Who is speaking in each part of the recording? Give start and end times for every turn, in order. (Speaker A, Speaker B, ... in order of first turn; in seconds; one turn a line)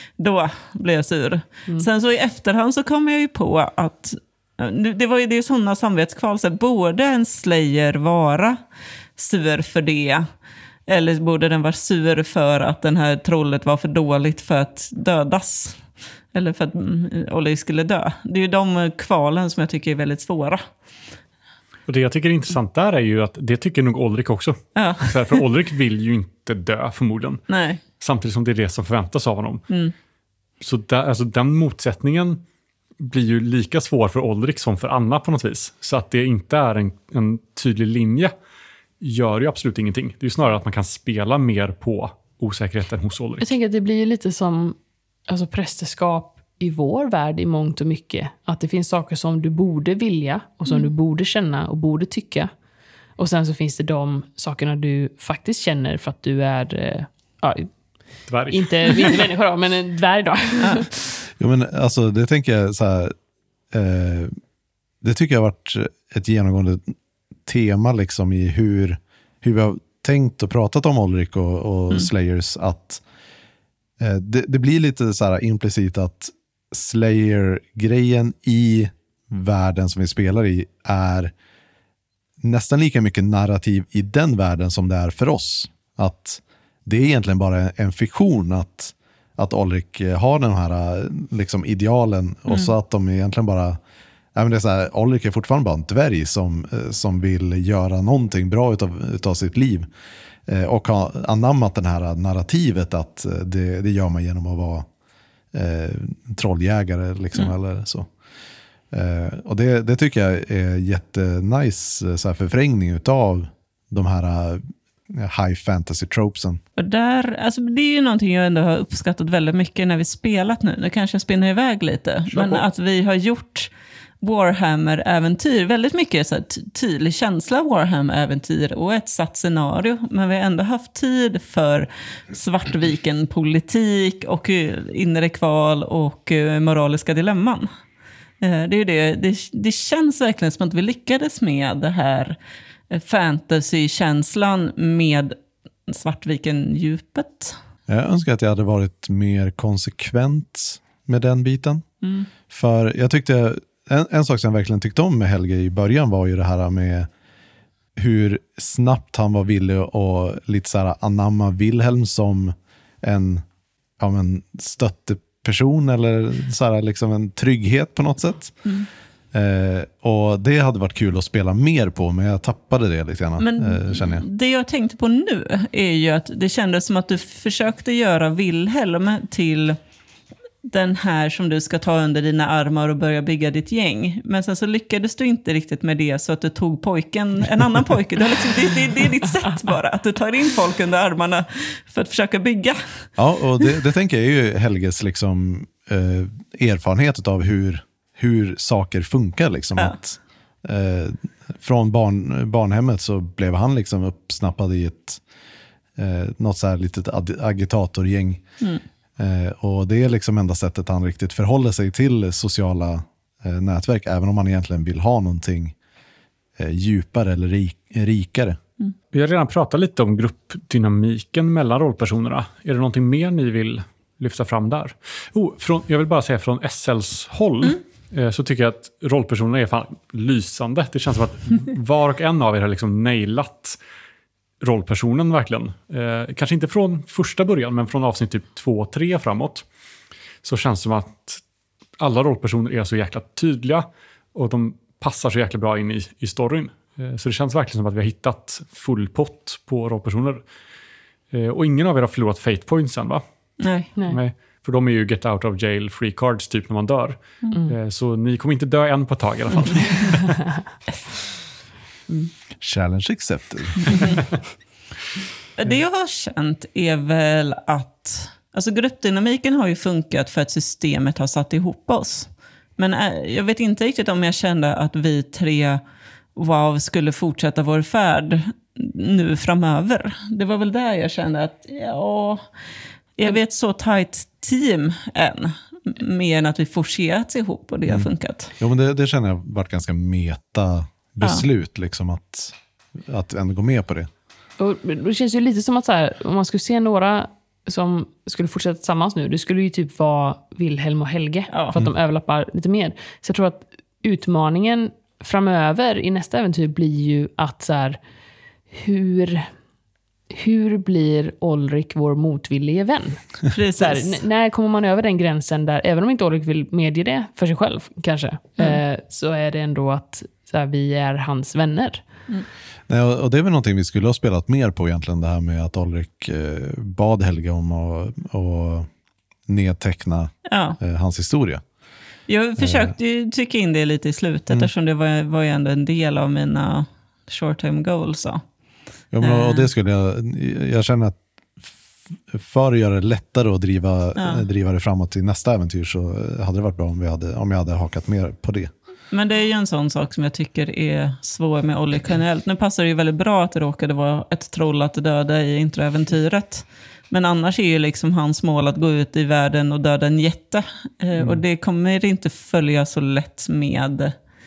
Speaker A: 0.2-8.6
Speaker A: 9.2-10.3
Speaker A: 10.9-20.7
Speaker B: 21.9-27.4
Speaker A: 24.8-25.2
Speaker A: 27.5-27.8
Speaker B: 28.0-29.6
Speaker A: 29.7-29.9
Speaker B: 30.6-32.4
Speaker B: 33.0-38.3
Speaker B: 39.0-43.5
Speaker C: 43.4-44.8
Speaker C: 45.3-52.5
Speaker C: 53.2-57.7
Speaker C: 58.2-61.0
Speaker B: 58.3-59.3
Speaker D: 61.4-63.1
Speaker D: 63.7-64.3
Speaker D: 65.0-66.9
Speaker D: 67.5-73.0
Speaker D: 74.0-81.3
Speaker D: 82.4-93.8
Speaker D: 94.3-99.9
Speaker D: 100.5-104.9
Speaker D: 105.5-108.1
Speaker D: 108.9-116.6
Speaker A: 116.8-123.7
Speaker B: 122.3-122.6
Speaker A: 124.2-137.7
Speaker A: 138.4-142.4
Speaker A: 142.9-145.4
Speaker A: 145.9-147.6
Speaker D: 147.9-151.9
Speaker A: 152.0-152.3
Speaker D: 152.5-157.1
Speaker D: 158.0-163.4
Speaker D: 164.0-168.6
Speaker D: 169.3-174.2
Speaker A: 173.4-179.8
Speaker A: 180.6-193.1
Speaker D: 193.2-205.2
Speaker D: 206.0-208.4
Speaker D: 209.2-215.8
Speaker D: 216.6-218.6
Speaker B: 219.1-233.8
Speaker B: 234.6-239.7
Speaker B: 240.4-241.4
Speaker B: 242.0-250.4
Speaker B: 251.3-253.2
Speaker A: 253.6-253.9
Speaker B: 254.0-260.4
Speaker A: 259.6-260.0
Speaker D: 262.6-264.1
Speaker A: 263.9-264.2
Speaker A: 265.6-275.8
Speaker A: 276.4-282.4
Speaker A: 283.2-288.5
Speaker D: 287.9-294.1
Speaker C: 294.6-308.0
Speaker A: 301.5-301.8
Speaker C: 308.7-309.5
Speaker C: 310.3-322.0
Speaker A: 313.5-314.2
Speaker D: 322.9-328.9
Speaker D: 329.5-331.6
Speaker A: 330.5-330.8
Speaker A: 332.3-338.4
Speaker D: 332.6-332.9
Speaker D: 339.1-341.6
Speaker A: 339.2-339.7
Speaker D: 342.3-348.7
Speaker A: 344.2-344.4
Speaker A: 349.1-364.1